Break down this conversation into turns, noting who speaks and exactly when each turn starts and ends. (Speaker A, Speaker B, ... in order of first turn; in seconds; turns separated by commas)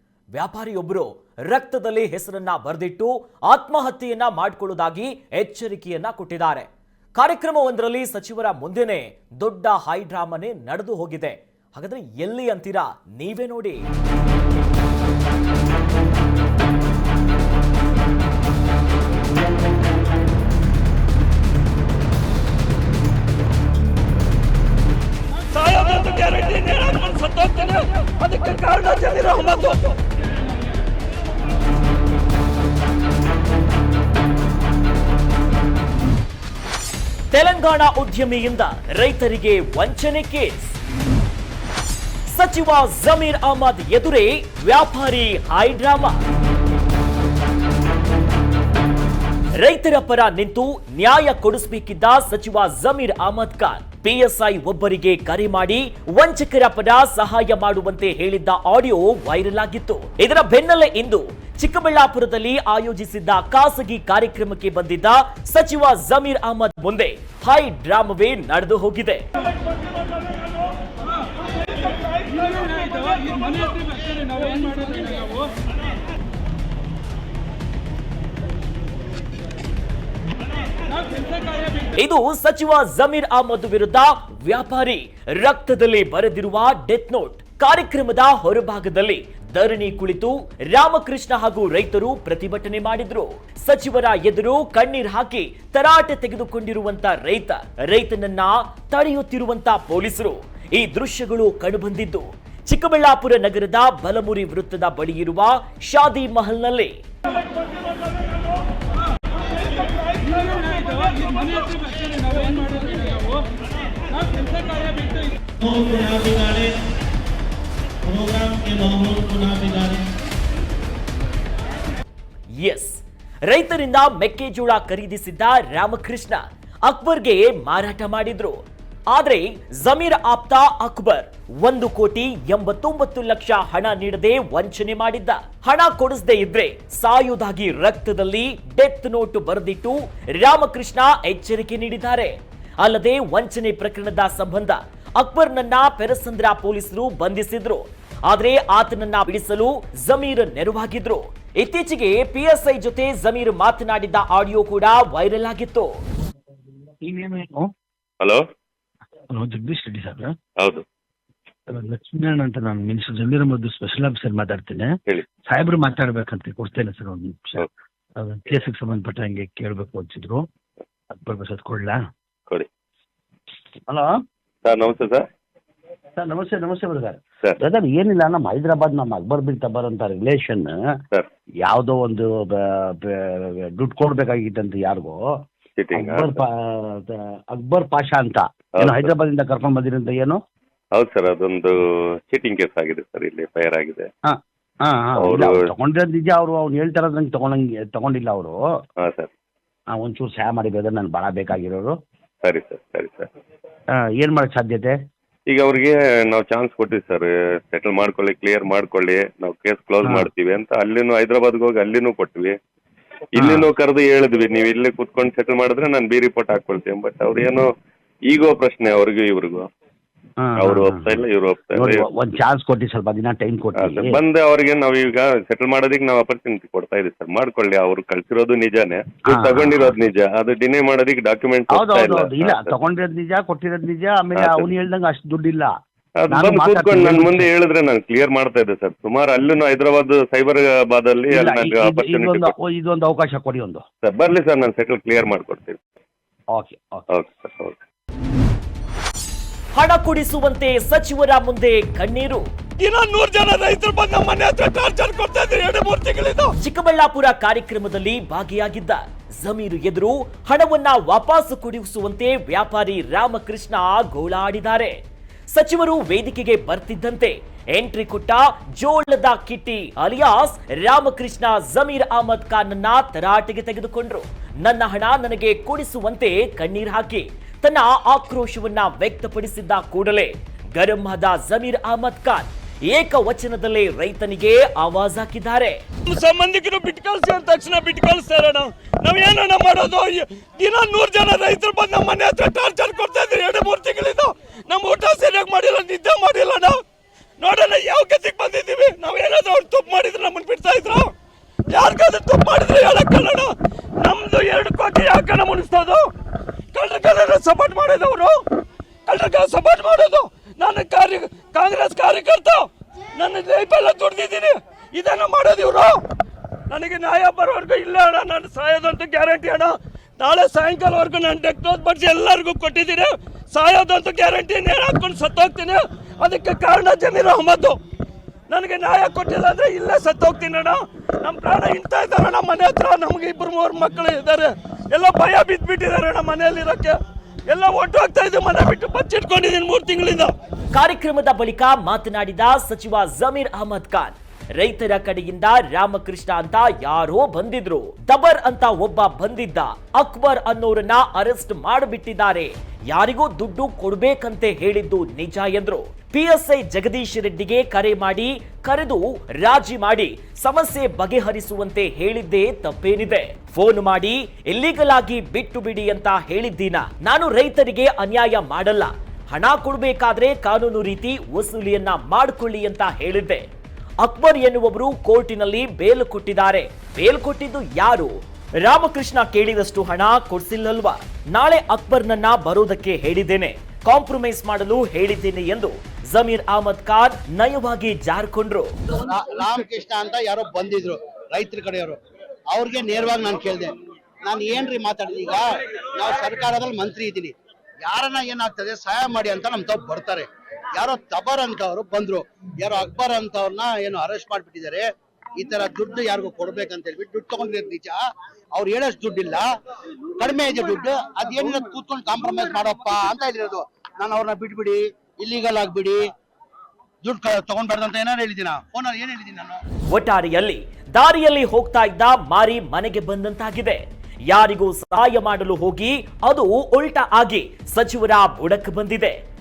Speaker A: 0.3-13.8, Speaker B: 25.5-29.9, Speaker A: 37.3-40.8, Speaker A: 42.3-46.2, Speaker A: 49.5-69.2, Speaker B: 74.5-75.0, Speaker A: 81.9-106.9, Speaker B: 112.5-112.8, Speaker A: 122.6-155.9, Speaker C: 157.0-157.7, Speaker C: 159.3-160.3, Speaker C: 161.7-165.0, Speaker C: 165.5-167.6, Speaker C: 168.2-170.4, Speaker C: 171.1-172.0, Speaker C: 173.9-174.1, Speaker D: 174.6-175.2, Speaker C: 176.2-180.7, Speaker C: 181.6-185.2, Speaker D: 185.8-186.4, Speaker C: 185.9-190.4, Speaker D: 188.8-189.1, Speaker D: 190.9-191.8, Speaker D: 192.3-194.1, Speaker C: 194.3-198.6, Speaker D: 195.2-195.6, Speaker D: 199.0-199.3, Speaker C: 199.9-202.0, Speaker D: 202.4-203.3, Speaker C: 204.0-204.9, Speaker D: 205.5-212.6, Speaker C: 210.0-210.3, Speaker D: 213.4-217.7, Speaker C: 213.4-213.7, Speaker D: 218.3-219.7, Speaker C: 220.4-224.2, Speaker D: 220.6-222.0, Speaker D: 223.8-232.7, Speaker C: 229.3-229.9, Speaker C: 231.7-235.7, Speaker D: 234.3-234.7, Speaker D: 236.2-242.5, Speaker C: 236.3-237.5, Speaker C: 241.3-243.8, Speaker D: 244.0-245.8, Speaker C: 246.5-247.1, Speaker D: 247.1-247.8, Speaker A: 249.7-252.4, Speaker B: 252.8-256.5, Speaker A: 256.6-264.9, Speaker A: 265.5-285.8, Speaker B: 286.1-296.8, Speaker B: 297.4-301.1, Speaker B: 301.7-303.5, Speaker B: 304.0-306.0, Speaker B: 306.7-308.4, Speaker B: 309.1-316.0, Speaker B: 316.7-327.8, Speaker B: 328.5-340.3, Speaker A: 340.7-373.4, Speaker A: 374.0-388.7, Speaker E: 389.0-392.0, Speaker E: 392.5-393.7, Speaker E: 394.2-395.4, Speaker E: 396.0-397.3, Speaker E: 397.8-404.8, Speaker E: 405.4-408.0, Speaker E: 408.5-409.4, Speaker E: 410.2-416.0, Speaker E: 417.0-419.6, Speaker A: 419.9-429.2